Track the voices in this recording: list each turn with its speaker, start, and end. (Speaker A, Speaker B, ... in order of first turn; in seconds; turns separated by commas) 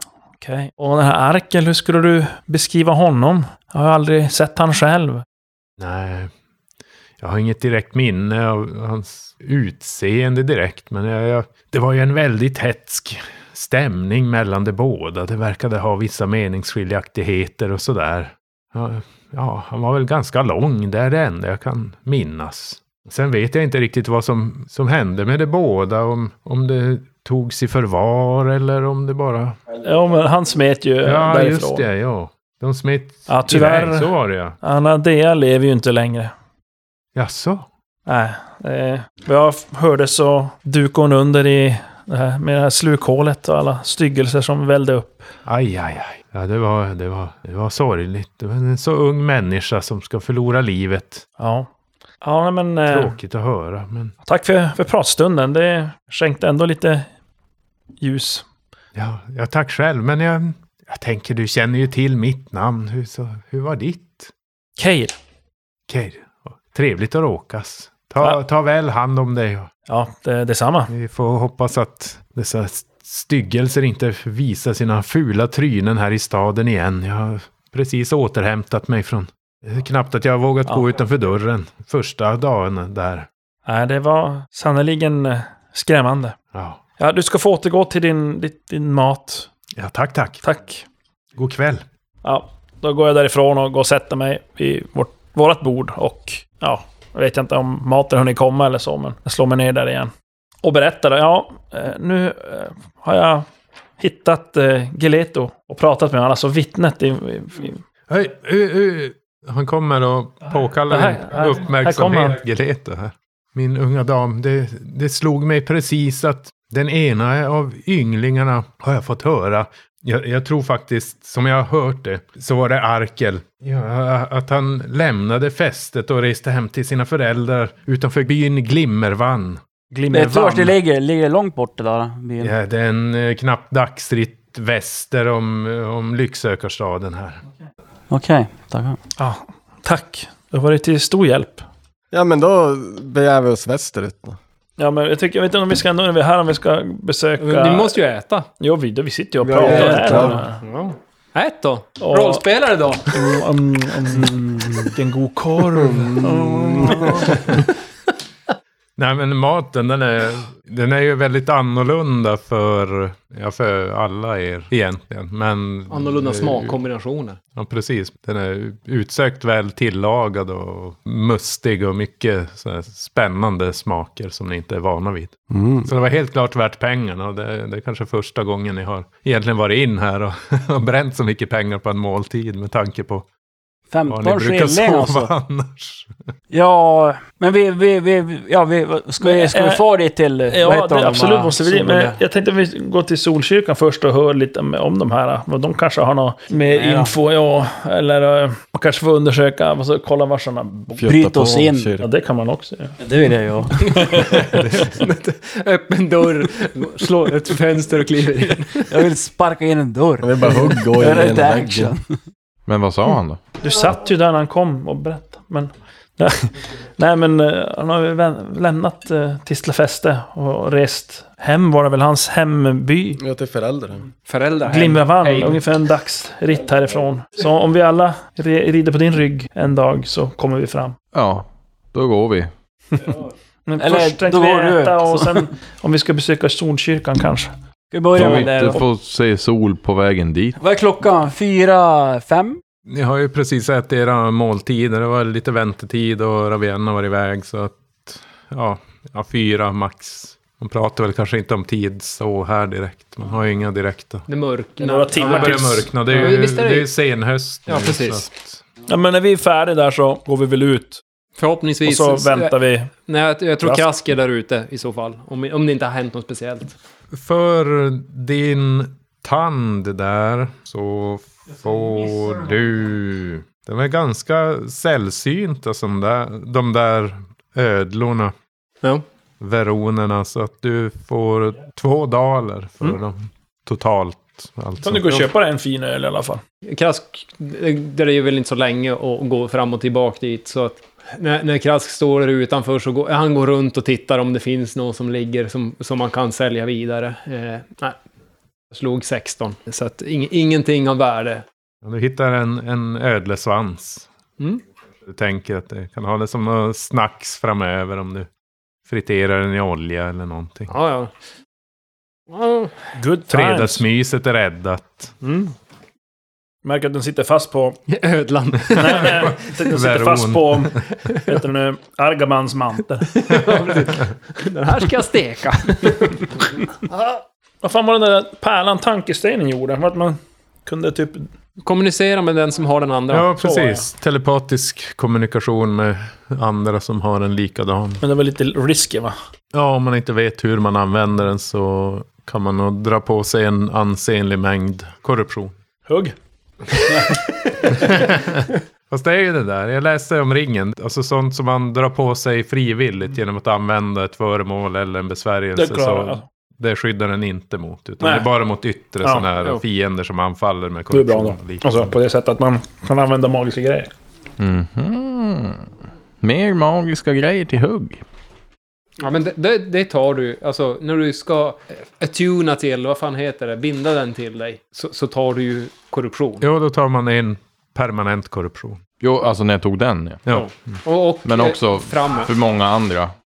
Speaker A: 0.4-5.2, Speaker B: 5.8-6.3, Speaker B: 7.2-29.6, Speaker A: 29.8-31.9, Speaker B: 31.0-34.6, Speaker A: 33.3-36.3, Speaker B: 37.1-37.6, Speaker A: 38.1-45.3, Speaker B: 45.5-51.2, Speaker A: 51.4-51.7, Speaker A: 52.2-53.1, Speaker B: 52.9-54.1, Speaker A: 54.2-57.1, Speaker A: 58.0-58.4, Speaker B: 58.9-64.3, Speaker A: 64.8-65.2, Speaker B: 65.9-69.7, Speaker A: 69.9-70.9, Speaker B: 70.9-83.3, Speaker A: 83.7-86.4, Speaker B: 86.5-86.8, Speaker A: 87.0-89.5, Speaker B: 89.8-90.4, Speaker A: 90.4-90.8, Speaker B: 91.4-91.8, Speaker A: 92.2-100.1, Speaker A: 100.6-103.5, Speaker A: 104.0-107.8, Speaker B: 108.1-129.6, Speaker A: 110.9-112.4, Speaker A: 129.9-130.8, Speaker C: 130.1-132.5, Speaker B: 132.4-137.4, Speaker C: 138.1-139.0, Speaker A: 139.2-141.7, Speaker D: 142.1-144.4, Speaker A: 144.8-148.0, Speaker E: 147.4-148.5, Speaker A: 148.6-150.6, Speaker D: 149.4-150.4, Speaker E: 149.7-153.1, Speaker A: 152.0-152.4, Speaker A: 153.1-157.5, Speaker D: 155.7-157.4, Speaker B: 159.0-166.8, Speaker E: 165.9-167.4, Speaker B: 167.6-175.3, Speaker D: 175.5-175.9, Speaker B: 175.8-183.3, Speaker C: 183.9-185.3, Speaker B: 184.1-186.1, Speaker C: 186.5-192.2, Speaker A: 189.2-189.8, Speaker A: 190.5-201.0, Speaker C: 196.7-197.1, Speaker D: 201.0-202.1, Speaker C: 201.0-201.9, Speaker A: 202.0-203.0, Speaker C: 203.0-204.4, Speaker A: 203.8-204.5, Speaker E: 204.5-208.9, Speaker B: 204.6-204.9, Speaker C: 208.9-212.2, Speaker D: 210.2-211.9, Speaker F: 212.7-213.4, Speaker A: 213.6-223.2, Speaker D: 223.2-224.1, Speaker E: 224.3-225.6, Speaker A: 224.7-231.0, Speaker F: 231.1-232.5, Speaker A: 233.7-237.5, Speaker C: 233.8-235.4, Speaker C: 237.9-238.8, Speaker F: 238.1-240.6, Speaker A: 238.1-238.8, Speaker C: 240.6-242.6, Speaker B: 242.9-254.2, Speaker E: 254.3-256.9, Speaker A: 254.8-256.4, Speaker B: 255.2-258.6, Speaker E: 257.6-258.3, Speaker A: 258.9-261.0, Speaker E: 261.4-262.5, Speaker A: 261.8-262.9, Speaker E: 263.1-266.8, Speaker A: 263.6-263.9, Speaker B: 267.1-278.3, Speaker B: 279.4-285.3, Speaker A: 284.8-286.4, Speaker E: 286.7-298.0, Speaker E: 298.7-301.4, Speaker B: 301.8-304.1, Speaker B: 305.1-308.3, Speaker B: 308.9-310.7, Speaker E: 310.7-311.1, Speaker E: 312.3-312.9, Speaker A: 312.9-313.9, Speaker B: 313.3-315.1, Speaker A: 315.2-315.5, Speaker A: 316.6-317.8, Speaker E: 317.9-319.2, Speaker A: 318.7-323.1, Speaker B: 319.0-320.8, Speaker E: 323.1-327.2, Speaker A: 327.6-331.3, Speaker E: 331.6-333.3, Speaker B: 333.1-338.0, Speaker A: 333.4-333.9, Speaker A: 338.0-339.1, Speaker B: 339.5-345.6, Speaker A: 345.9-346.1, Speaker A: 346.8-347.9, Speaker B: 347.7-361.9, Speaker A: 355.6-356.2, Speaker A: 358.0-358.3, Speaker A: 359.0-359.3, Speaker A: 360.9-363.9, Speaker F: 364.4-365.7, Speaker F: 366.2-368.0, Speaker E: 369.0-376.5, Speaker B: 376.4-378.8, Speaker F: 379.0-380.2, Speaker E: 380.3-382.3, Speaker F: 381.2-383.1